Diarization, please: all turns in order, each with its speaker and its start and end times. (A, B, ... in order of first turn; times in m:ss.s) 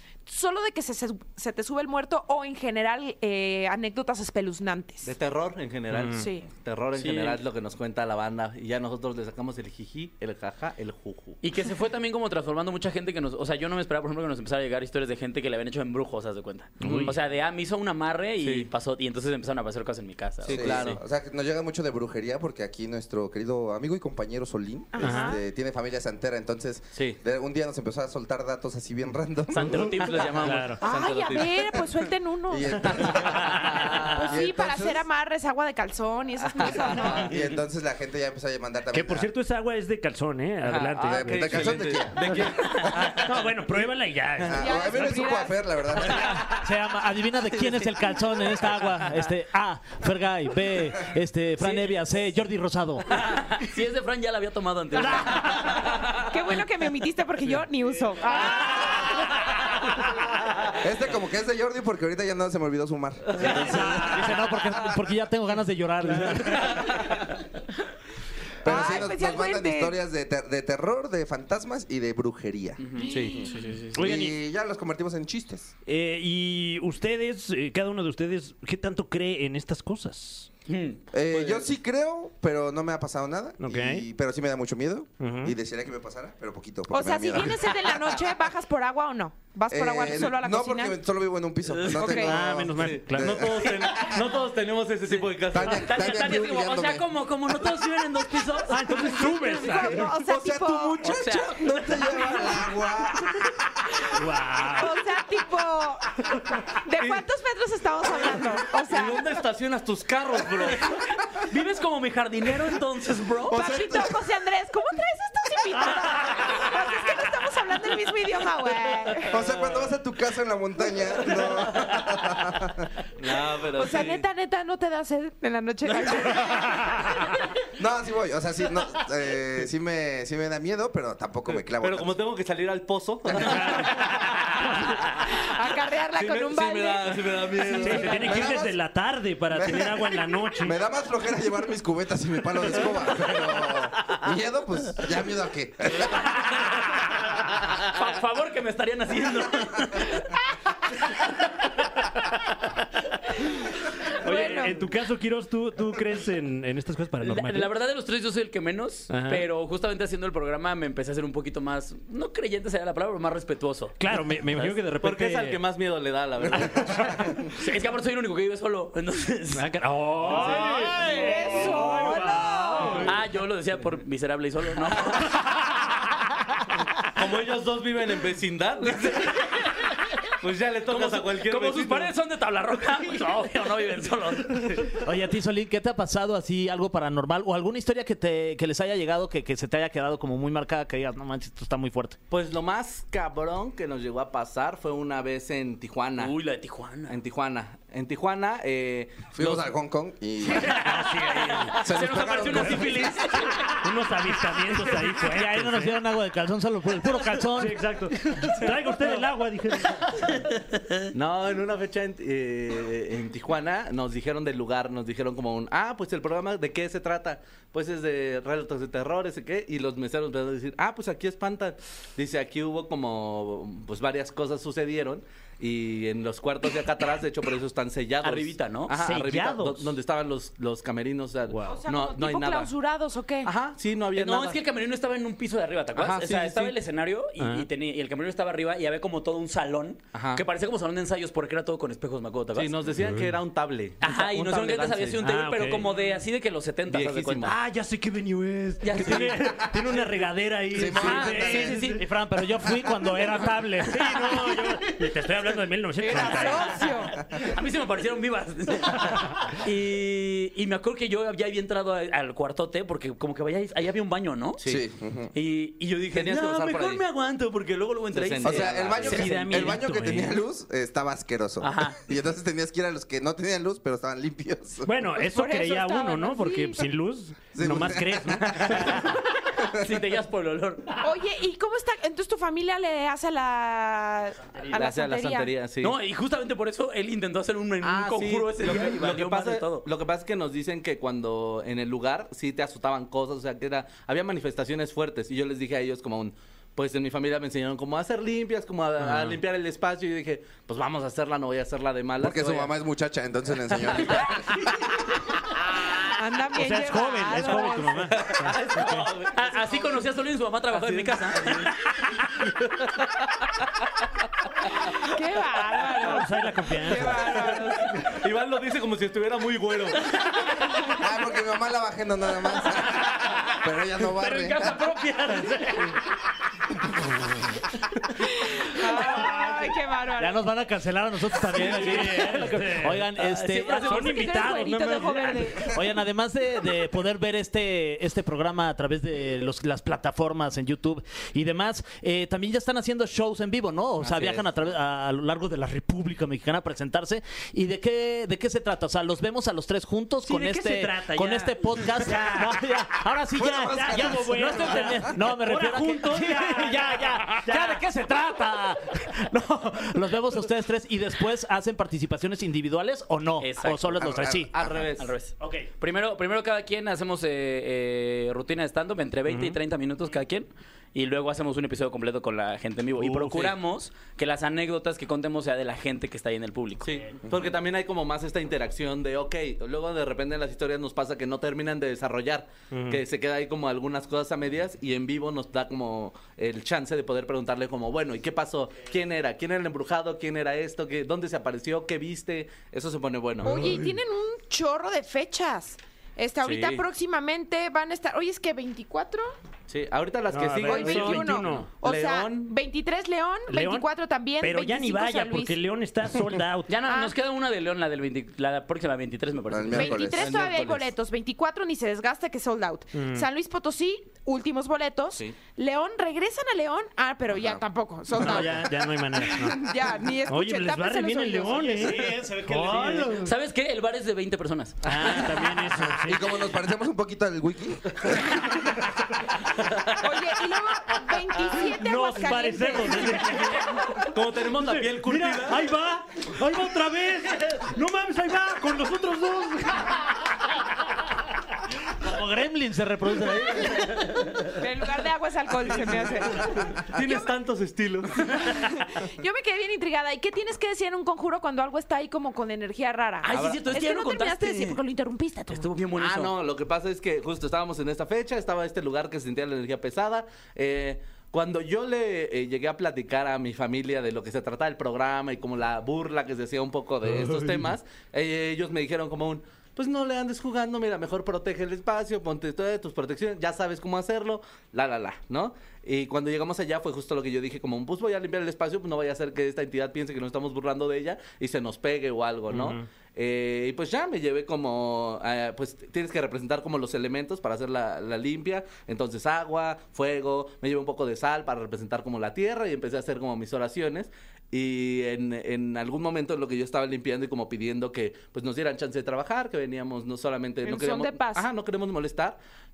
0:00.2-0:05.1 A
0:05.0-0:11.4 B
0:05.9-0:06.3 C
0:06.2-0:06.4 A
0:06.9-0:07.4 D
0:11.4-0:21.0 D
0:16.8-0:17.1 C
0:16.8-0:17.1 B
0:18.4-0:18.7 B
0:20.4-0:21.0 B
0:20.5-0:30.3 E
0:24.9-0:25.4 A
0:25.0-0:25.4 C
0:26.9-0:27.2 B
0:29.5-0:30.8 D
0:29.5-0:31.5 B
0:30.4-0:30.8 C
0:30.8-0:32.9 A
0:32.5-0:35.0 E
0:33.0-0:34.1 B
0:34.1-0:37.3 A
0:36.6-0:37.4 B
0:36.8-0:39.3 E
0:38.9-0:42.4 C
0:40.6-0:43.4 B
0:41.0-0:42.9 E
0:42.5-0:42.9 D
0:43.0-0:45.0 C
0:44.4-0:46.5 E
0:44.6-0:45.6 A
0:46.4-0:53.2 F
0:47.6-0:48.2 D
0:53.1-0:56.1 D
0:56.2-0:59.0 A
0:58.3-0:59.2 D
1:00.8-1:04.4 E
1:03.4-1:06.9 F
1:03.4-1:04.5 C
1:08.6-1:13.1 E
1:08.6-1:10.0 A
1:12.8-1:13.9 D
1:13.0-1:13.4 A
1:13.1-1:13.5 B
1:13.9-1:15.7 E
1:13.9-1:14.4 C
1:15.8-1:20.5 C
1:20.7-1:21.6 D
1:21.1-1:28.1 E
1:23.6-1:24.0 C
1:25.2-1:25.5 C
1:26.9-1:31.0 A
1:29.7-1:34.2 E
1:31.6-1:32.2 D
1:31.9-1:32.3 A
1:32.2-1:33.6 C
1:32.8-1:36.2 B
1:35.1-1:39.0 D
1:35.5-1:37.1 E
1:38.7-1:40.1 C
1:38.9-1:41.1 A
1:40.0-1:43.5 E
1:41.0-1:42.5 D
1:44.0-1:46.1 A
1:44.1-1:45.0 C
1:46.8-1:49.2 A
1:47.0-1:47.2 B
1:48.6-1:50.9 B
1:51.5-1:53.8 D
1:53.5-1:59.4 A
1:53.5-1:54.1 E
1:59.3-2:02.9 E
1:59.4-1:59.9 B
2:03.2-2:04.2 B
2:03.7-2:07.3 A
2:07.7-2:12.2 E
2:11.5-2:14.3 B
2:13.4-2:13.9 C
2:15.2-2:18.3 A
2:16.1-2:18.5 B
2:17.8-2:20.8 C
2:18.0-2:18.8 E
2:19.5-2:26.4 E
2:27.8-2:30.3 D
2:34.1-2:37.7 C
2:34.2-2:34.8 A
2:37.2-2:44.0 D
2:39.1-2:39.5 C
2:44.0-2:45.6 C
2:44.5-2:44.8 D
2:45.0-2:47.3 B
2:47.5-2:49.6 D
2:49.5-2:53.1 C
2:50.2-2:50.9 B
2:50.4-2:53.1 A
2:53.0-2:55.4 D
2:57.2-2:59.3 B
2:59.0-2:59.4 D
3:00.4-3:02.1 B
3:00.8-3:04.9 D
3:05.0-3:12.2 F
3:12.3-3:16.4 B
3:16.2-3:17.2 D
3:17.1-3:19.7 B
3:19.3-3:20.8 E
3:20.6-3:21.9 C
3:20.6-3:23.8 D
3:21.8-3:23.2 E
3:22.5-3:22.9 C
3:23.6-3:26.0 C
3:25.1-3:28.5 F
3:27.5-3:30.3 C
3:31.1-3:52.7 B
3:48.2-3:49.0 D
3:49.0-3:49.9 C
3:51.5-3:51.8 C
3:51.6-3:53.5 A
3:53.4-3:54.6 B
3:54.1-4:02.8 D
3:55.9-3:56.8 B
3:57.4-3:57.7 C
4:00.1-4:00.4 B
4:02.5-4:05.2 B
4:03.0-4:03.3 C
4:04.0-4:07.5 D
4:05.2-4:06.2 C
4:06.9-4:07.5 B
4:07.4-4:12.0 C
4:08.8-4:09.5 D
4:10.7-4:11.8 E
4:10.8-4:12.0 D
4:11.9-4:14.7 F
4:13.8-4:16.8 C
4:16.0-4:17.1 A
4:16.2-4:16.5 D
4:17.3-4:24.6 D
4:24.6-4:24.8 B
4:24.6-4:25.3 E
4:25.3-4:29.8 D
4:26.1-4:27.0 B
4:28.1-4:29.5 B
4:28.4-4:34.9 E
4:29.0-4:30.4 C
4:31.6-4:32.0 D
4:34.8-4:39.0 C
4:35.2-4:36.8 A
4:37.5-4:39.1 E
4:38.6-4:41.0 D
4:39.6-4:40.0 E
4:41.0-4:45.5 A
4:44.7-4:46.0 B
4:45.8-4:49.9 D
4:47.8-5:02.7 B
4:59.0-4:59.4 C
5:02.2-5:04.6 E
5:06.1-5:08.1 A
5:06.5-5:09.1 C
5:08.2-5:10.1 B
5:09.3-5:12.2 D
5:10.7-5:11.7 B
5:14.8-5:18.0 A
5:16.0-5:17.5 C
5:17.4-5:20.0 B
5:21.0-5:24.8 E
5:24.1-5:26.0 D
5:28.2-5:30.4 A
5:30.2-5:33.9 F
5:31.5-5:33.1 C
5:33.2-5:34.4 D
5:33.7-5:35.8 C
5:33.9-5:35.7 A
5:35.7-6:04.5 F
5:50.2-5:52.6 C
5:53.3-5:55.1 E
5:53.7-5:57.8 C
6:03.4-6:04.0 D
6:03.9-6:04.8 E
6:04.5-6:05.1 B
6:04.9-6:17.0 D
6:09.3-6:09.6 C
6:13.0-6:13.6 C
6:16.8-6:33.6 B
6:22.7-6:23.0 C
6:33.4-6:33.9 C
6:33.4-6:39.3 A
6:36.4-6:36.8 B
6:39.7-6:42.5 B
6:40.3-6:41.7 C
6:40.6-6:45.6 A
6:43.5-6:43.9 C
6:44.4-6:46.7 C
6:46.7-6:50.1 D
6:46.9-6:47.1 A
6:49.5-6:50.3 E
6:49.7-7:01.9 A
6:50.2-6:50.9 B
6:52.9-6:53.2 C
6:57.3-6:57.6 E
6:58.2-6:59.7 C
7:00.3-7:03.3 C
7:01.7-7:03.3 F
7:03.2-7:05.5 D
7:04.8-7:05.2 B
7:04.8-7:06.5 C
7:06.0-7:08.5 E
7:10.0-7:13.5 A
7:11.5-7:20.1 C
7:14.1-7:15.6 B
7:22.0-7:24.4 F
7:24.5-7:26.6 A
7:26.7-7:28.5 B
7:28.4-7:35.7 A
7:33.2-7:34.8 D
7:33.3-7:33.6 B
7:35.5-7:36.3 D
7:36.0-8:22.4 B
8:02.5-8:02.8 C
8:20.6-8:21.4 A